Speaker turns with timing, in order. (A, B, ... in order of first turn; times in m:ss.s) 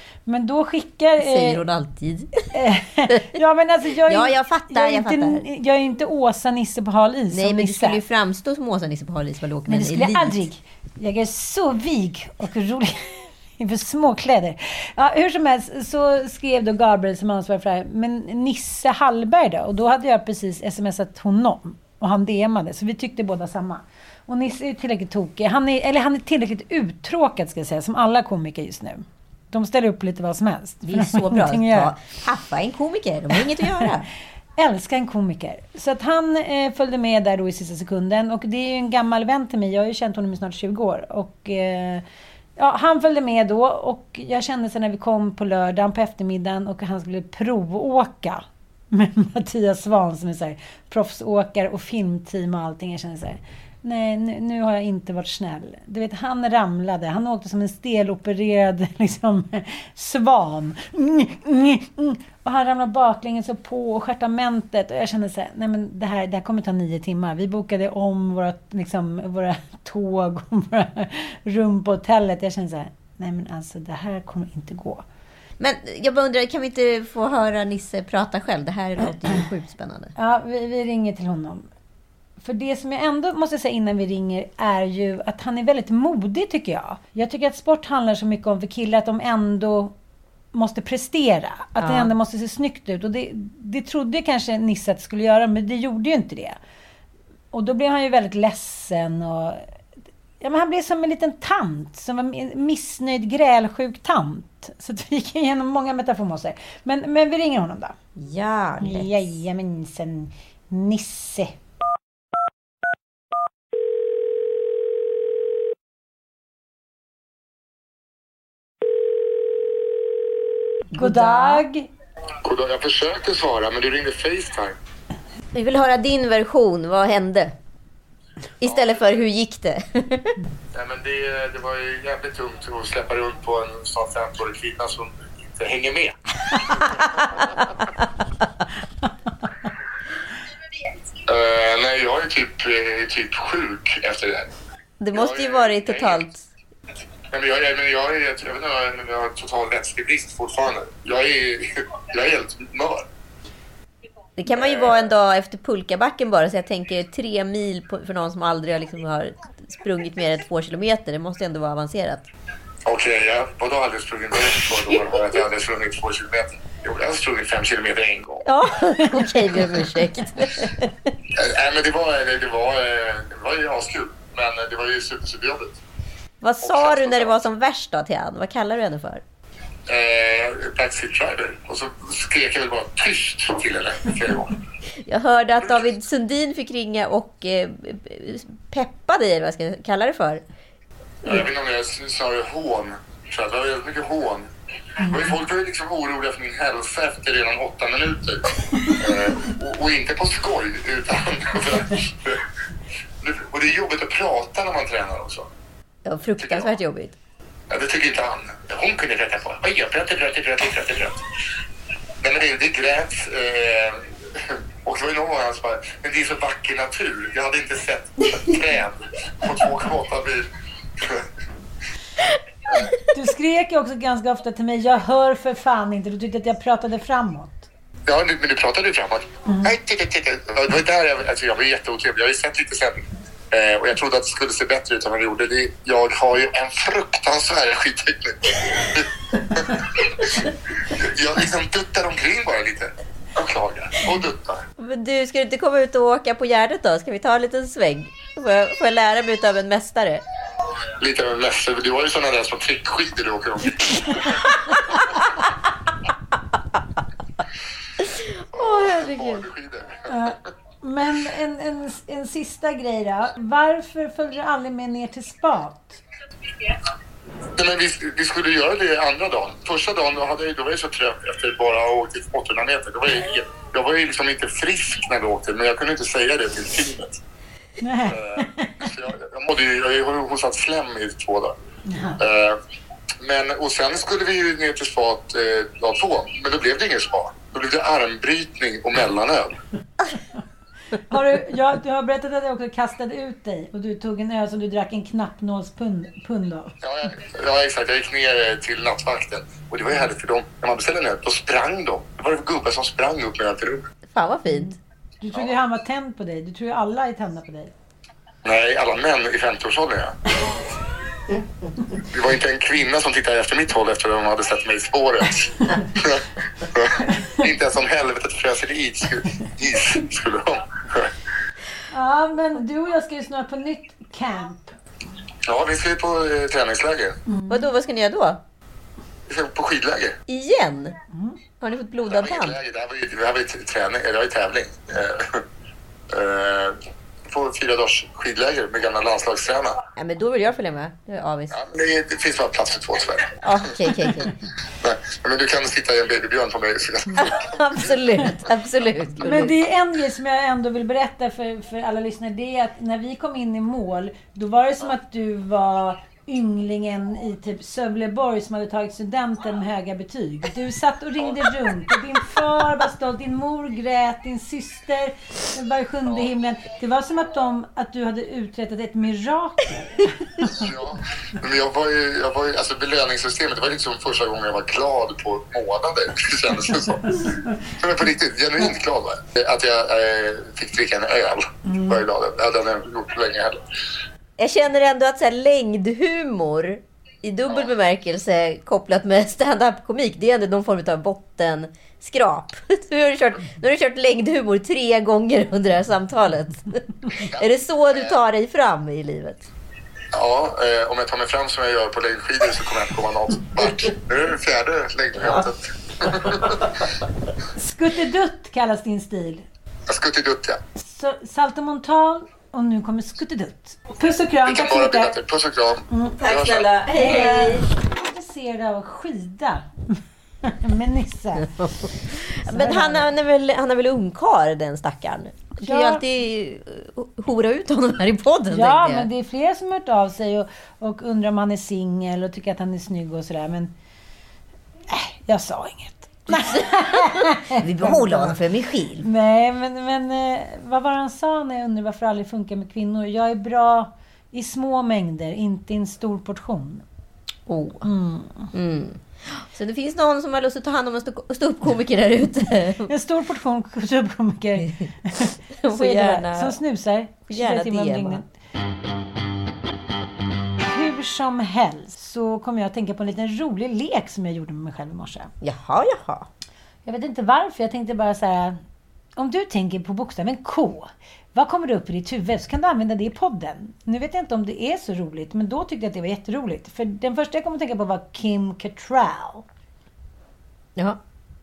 0:00.3-0:01.6 A
0:01.2-0:02.5 B
0:02.5-0:08.0 A
0:04.0-0:05.4 B
0:07.3-0:10.4 B
0:09.7-0:31.9 A
0:30.8-0:34.1 B
0:34.6-0:42.0 A
0:42.6-1:15.0 A
1:15.6-1:20.1 B
1:20.2-1:21.7 A
1:22.4-1:29.9 A
1:30.5-1:36.6 A
1:31.8-1:32.1 B
1:37.5-1:39.6 A
1:40.4-1:48.0 A
1:48.2-1:49.3 B
1:48.8-1:51.6 A
2:00.9-2:01.6 B
2:01.0-2:01.9 A
2:02.4-2:04.8 C
2:05.5-2:07.5 B
2:08.6-2:10.4 B
2:10.7-2:17.6 C
2:21.3-2:24.5 C
2:25.0-2:26.5 B
2:25.1-2:26.2 C
2:27.3-2:33.1 C
2:34.4-2:42.3 B
2:34.5-2:35.1 C
2:42.9-2:48.4 C
2:44.9-2:45.2 B
2:48.4-2:51.1 B
2:51.3-2:55.8 C
2:56.4-2:59.2 B
2:56.6-2:57.4 C
2:59.9-3:04.6 C
3:05.1-3:10.4 B
3:11.2-3:14.5 C
3:15.0-3:22.4 C
3:23.2-3:25.5 C
3:26.0-3:27.2 B
3:26.4-3:26.7 C
3:27.7-3:31.2 C
3:32.2-3:41.3 C
3:42.7-3:43.0 B
3:43.1-3:47.7 A
3:48.1-4:04.6 C
4:04.8-4:10.2 B
4:11.0-4:14.5 C
4:18.0-4:19.5 B
4:18.6-4:20.3 C
4:20.1-4:26.0 A
4:27.6-4:37.2 C
4:37.8-4:38.9 A
4:38.1-4:41.6 C
4:41.9-4:42.2 A
4:42.2-4:42.6 C
4:43.2-4:49.6 C
4:50.9-4:56.7 A
4:56.8-5:03.8 C
5:04.1-5:04.8 B
5:05.2-5:07.7 A
5:08.4-5:10.2 C
5:12.1-5:21.1 C
5:21.9-5:24.8 A
5:25.5-5:27.2 C
5:27.3-5:27.7 A
5:27.5-5:28.4 B
5:29.3-5:30.2 C
5:30.3-5:31.0 B
5:31.6-5:32.6 B
5:32.1-5:35.4 C
5:36.1-5:39.8 C
5:40.0-5:41.6 B
5:41.5-5:43.4 C
5:43.4-5:44.3 B
5:44.8-5:47.6 C
5:47.2-5:49.6 B
5:49.2-6:10.6 A
6:10.5-6:23.6 C
6:17.1-6:17.4 A
6:21.7-6:22.0 A
6:24.4-6:39.5 B
6:40.1-6:46.7 C
6:47.6-6:49.5 A
6:49.9-6:50.6 C
6:50.8-6:55.2 A
6:54.5-6:56.7 C
6:55.9-6:56.2 A
6:56.2-6:57.7 B
6:56.9-7:01.7 A
7:01.4-7:09.1 B
7:02.5-7:03.1 A
7:05.6-7:06.0 A
7:08.5-7:13.7 A
7:14.9-7:18.4 A
7:16.3-7:19.1 B
7:19.0-7:26.8 A
7:27.5-7:27.9 B
7:27.8-7:28.5 A
7:28.5-7:32.9 B
7:32.9-7:38.3 A
7:35.6-7:36.6 B
7:37.3-7:38.2 B
7:40.6-7:45.3 A
7:45.4-7:46.3 B
7:46.9-7:48.6 A
7:49.2-7:59.5 A